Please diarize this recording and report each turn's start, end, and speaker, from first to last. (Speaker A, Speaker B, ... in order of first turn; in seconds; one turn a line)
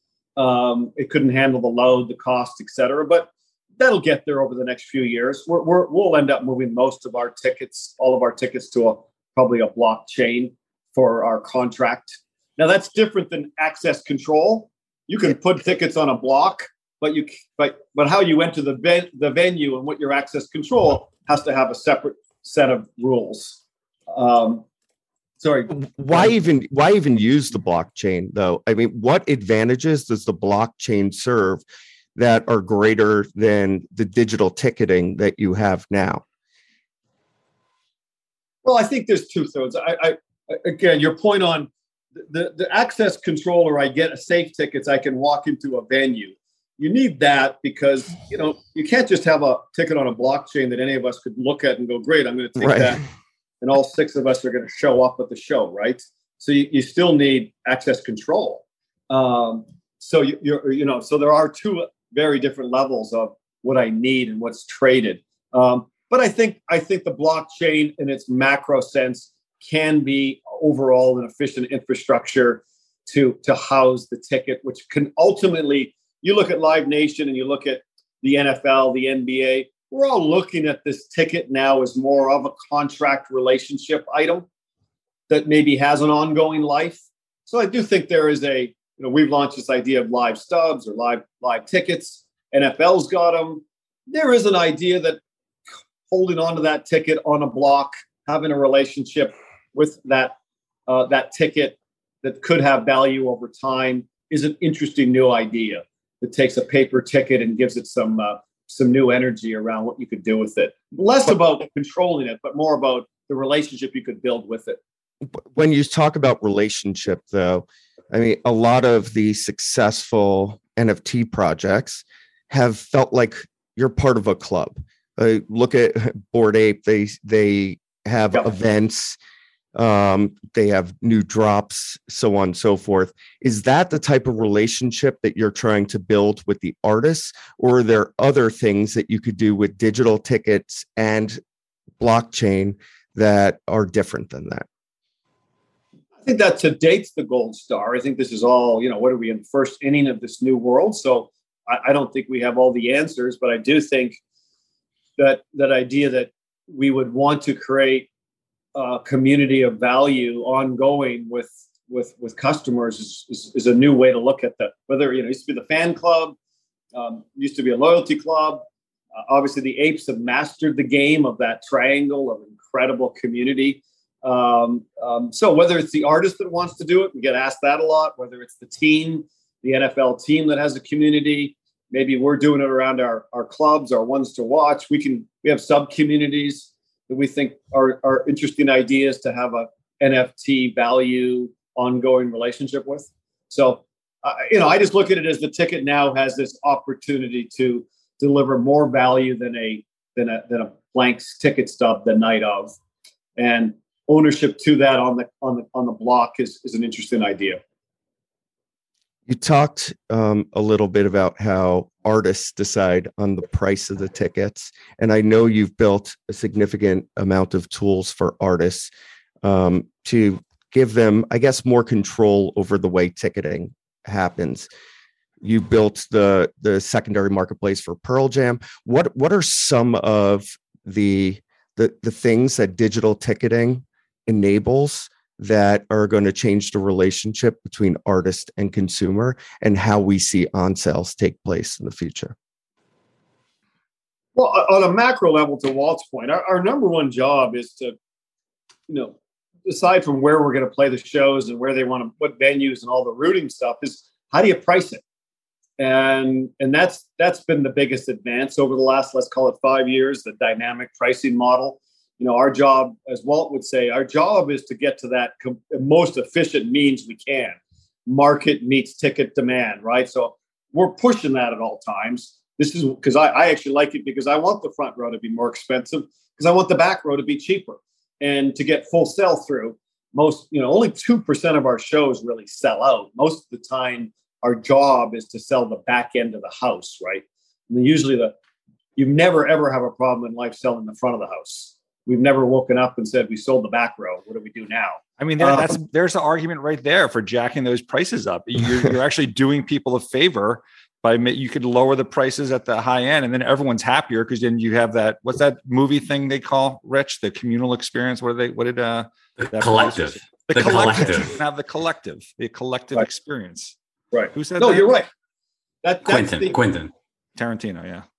Speaker A: 0.3-23.6
Speaker A: 24.1-24.6
Speaker A: 25.4-26.3
Speaker B: 25.7-31.6
Speaker B: 32.1-36.2
Speaker A: 38.6-53.0
Speaker B: 52.6-53.0
Speaker A: 53.6-84.5
Speaker A: 85.3-95.2
Speaker A: 96.1-100.3
Speaker A: 100.9-114.8
Speaker B: 115.5-129.2
Speaker B: 129.7-141.4
Speaker B: 142.0-144.7
Speaker A: 146.2-154.2
Speaker A: 155.2-158.1
Speaker A: 158.7-166.3
Speaker A: 166.9-168.6
Speaker A: 169.3-202.7
Speaker A: 203.3-207.6
Speaker B: 209.3-218.9
Speaker B: 219.4-224.7
Speaker B: 225.4-242.3
Speaker A: 244.3-247.9
Speaker A: 248.9-255.0
Speaker A: 255.8-288.3
Speaker A: 288.9-295.8
Speaker C: 295.2-313.8
Speaker D: 309.4-311.4
Speaker A: 314.1-315.1
Speaker C: 314.3-314.9
Speaker A: 315.8-316.6
Speaker D: 316.1-316.9
Speaker C: 317.4-318.0